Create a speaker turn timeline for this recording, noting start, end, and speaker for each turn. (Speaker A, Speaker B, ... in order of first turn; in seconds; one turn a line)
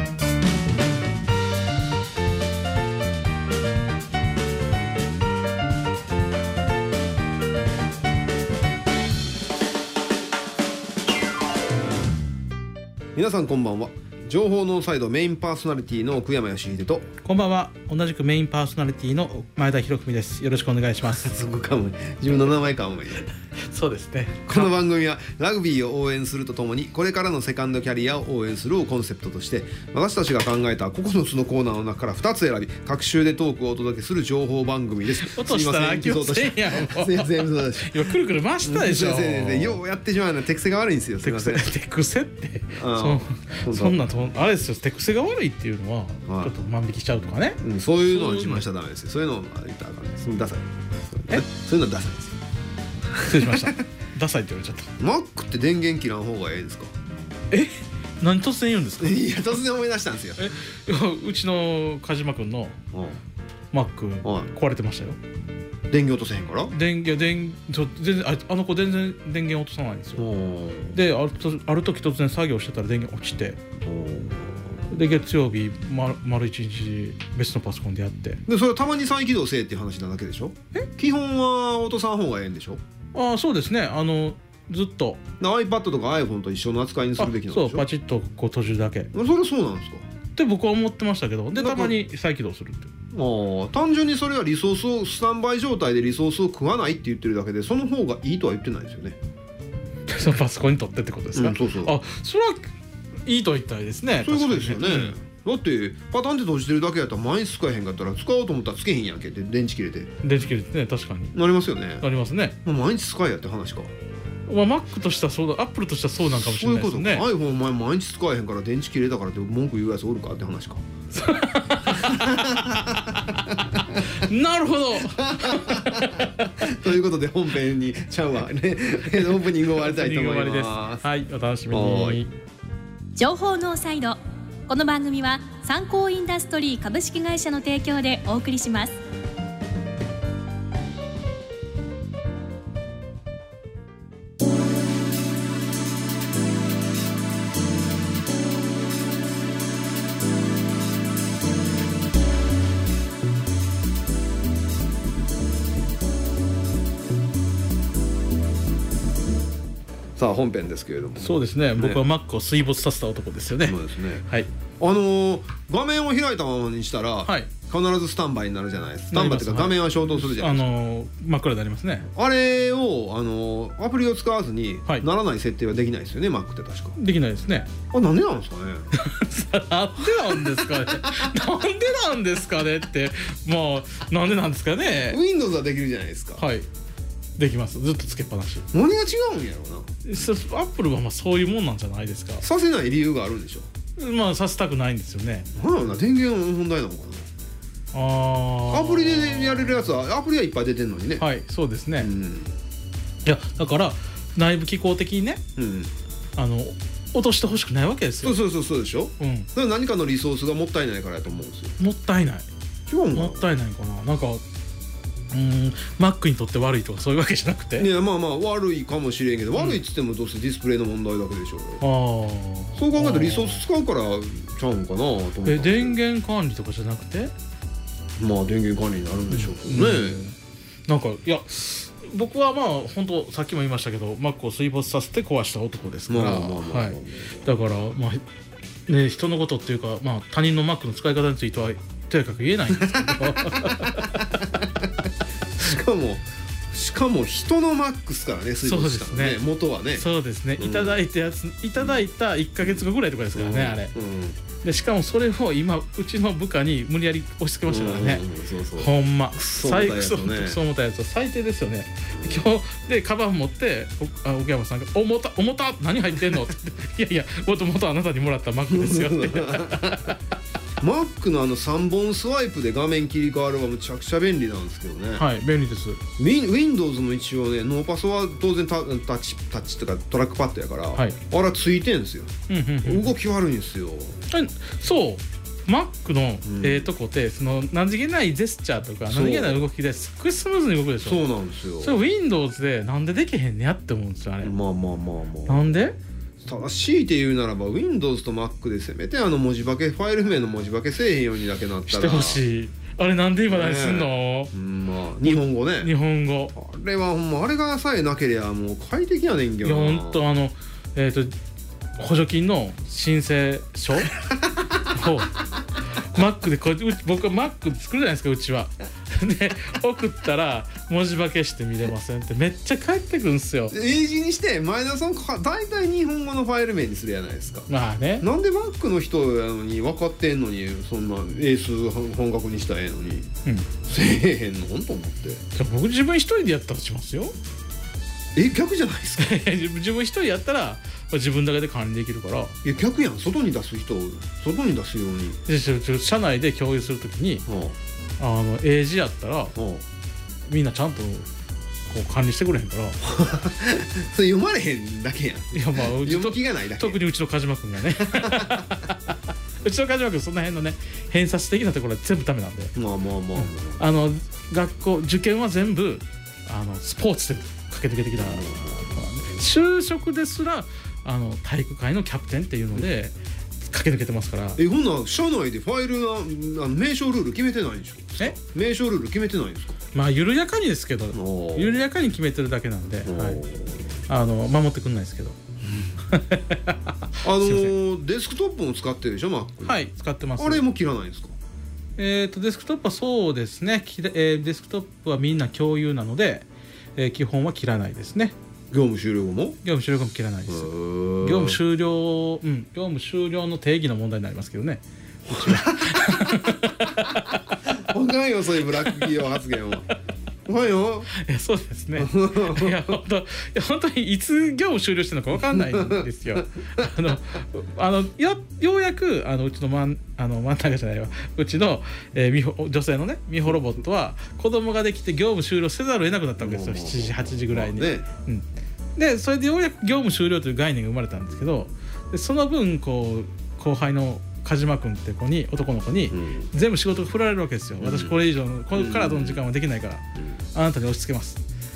Speaker A: 13.1-17.1
Speaker B: 17.2-21.3
Speaker A: 21.1-23.3
Speaker B: 23.6-24.7
Speaker A: 24.4-38.0
Speaker B: 35.2-39.8
Speaker A: 38.6-41.7
Speaker B: 41.2-48.6
Speaker A: 42.7-44.0
Speaker A: 46.2-46.5
Speaker A: 47.6-52.4
Speaker A: 53.1-53.7
Speaker B: 53.2-54.9
Speaker A: 55.0-56.9
Speaker B: 57.5-59.3
Speaker A: 59.0-60.5
Speaker B: 60.4-62.8
Speaker A: 62.9-63.2
Speaker B: 63.7-65.2
Speaker A: 64.2-64.5
Speaker A: 65.9-66.7
Speaker B: 66.7-70.2
Speaker A: 70.2-71.0
Speaker B: 70.9-73.6
Speaker A: 73.8-74.7
Speaker B: 74.9-78.4
Speaker A: 78.5-82.8
Speaker B: 83.1-85.2
Speaker A: 85.4-87.8
Speaker B: 87.2-89.1
Speaker A: 89.1-90.0
Speaker B: 90.3-92.9
Speaker A: 91.5-91.9
Speaker A: 93.1-99.2
Speaker B: 100.1-102.7
Speaker A: 101.3-102.0
Speaker B: 103.2-105.1
Speaker A: 104.2-110.1
Speaker B: 110.2-111.3
Speaker A: 111.3-112.0
Speaker B: 112.0-112.6
Speaker A: 112.6-113.9
Speaker B: 114.5-117.2
Speaker A: 116.3-120.8
Speaker B: 121.1-122.5
Speaker A: 121.9-124.0
Speaker B: 123.9-126.7
Speaker A: 125.1-131.0
Speaker B: 129.2-132.3
Speaker A: 131.7-132.2
Speaker C: 133.2-138.9
Speaker A: 160.2-162.0
Speaker B: 161.2-164.5
Speaker A: 163.6-164.2
Speaker A: 164.8-170.7
Speaker B: 169.1-172.1
Speaker A: 172.1-177.0
Speaker B: 176.9-177.7
Speaker A: 177.9-178.9
Speaker B: 178.9-185.2
Speaker A: 180.2-181.3
Speaker A: 185.0-186.4
Speaker B: 186.4-186.7
Speaker B: 187.4-188.7
Speaker A: 188.7-189.9
Speaker B: 190.0-192.4
Speaker A: 192.4-193.7
Speaker B: 194.0-195.5
Speaker A: 195.6-197.3
Speaker B: 197.9-199.8
Speaker A: 198.7-201.2
Speaker B: 201.2-202.1
Speaker A: 202.0-202.6
Speaker B: 203.2-205.4
Speaker A: 205.6-205.9
Speaker B: 206.3-208.4
Speaker A: 208.2-211.8
Speaker B: 209.2-209.5
Speaker B: 211.8-212.4
Speaker A: 212.9-213.5
Speaker B: 213.1-214.4
Speaker B: 215.3-217.9
Speaker A: 217.8-221.8
Speaker B: 219.5-219.8
Speaker B: 221.8-223.6
Speaker A: 222.7-226.0
Speaker B: 225.4-227.3
Speaker A: 228.2-230.2
Speaker B: 229.3-230.3
Speaker B: 230.9-238.2
Speaker A: 236.1-237.4
Speaker B: 238.9-244.2
Speaker A: 242.8-244.9
Speaker A: 245.6-250.1
Speaker B: 248.6-249.4
Speaker B: 249.9-253.9
Speaker A: 250.6-251.0
Speaker A: 251.8-252.1
Speaker A: 253.3-254.4
Speaker B: 254.6-258.2
Speaker A: 257.6-260.6
Speaker B: 258.8-270.1
Speaker A: 262.1-262.4
Speaker A: 268.7-270.1
Speaker A: 270.8-275.2
Speaker B: 275.1-276.0
Speaker A: 276.2-284.2
Speaker B: 282.5-283.1
Speaker B: 284.3-291.2
Speaker A: 286.4-286.9
Speaker A: 289.1-289.6
Speaker A: 291.0-291.9
Speaker B: 291.8-294.5
Speaker A: 294.4-295.7
Speaker B: 295.5-296.0
Speaker A: 296.4-302.4
Speaker B: 301.9-304.5
Speaker A: 303.5-305.9
Speaker B: 305.2-306.5
Speaker A: 306.5-310.2
Speaker B: 309.6-311.3
Speaker B: 312.0-314.1
Speaker A: 314.3-314.8
Speaker B: 314.9-315.4
Speaker B: 315.9-323.8
Speaker A: 323.7-333.3
Speaker B: 327.7-328.3
Speaker A: 333.8-335.4
Speaker B: 335.5-337.3
Speaker A: 338.3-339.4
Speaker B: 339.2-342.6
Speaker A: 342.6-345.4
Speaker B: 345.4-347.4
Speaker A: 347.5-347.8
Speaker B: 348.2-349.6
Speaker A: 349.6-349.8
Speaker B: 350.5-351.3
Speaker B: 351.9-353.0
Speaker A: 353.0-357.0
Speaker B: 355.5-362.7
Speaker A: 358.1-358.6
Speaker A: 362.8-363.8
Speaker B: 363.4-374.6
Speaker A: 368.2-368.8
Speaker A: 374.6-379.8
Speaker B: 379.9-383.4
Speaker A: 381.1-381.8
Speaker A: 383.1-383.9
Speaker B: 384.1-385.4
Speaker A: 385.6-385.9
Speaker B: 386.1-387.7
Speaker A: 387.2-389.8
Speaker B: 389.6-390.6
Speaker A: 390.4-391.4
Speaker B: 392.0-398.3
Speaker A: 398.7-399.6
Speaker B: 399.6-400.7
Speaker A: 400.5-401.6
Speaker B: 401.2-406.9
Speaker A: 405.3-409.9
Speaker A: 410.4-411.1
Speaker B: 411.1-441.4
Speaker A: 412.0-412.8
Speaker A: 415.5-416.1
Speaker A: 426.4-428.1
Speaker A: 436.1-436.5
Speaker A: 437.8-438.2
Speaker A: 438.7-439.4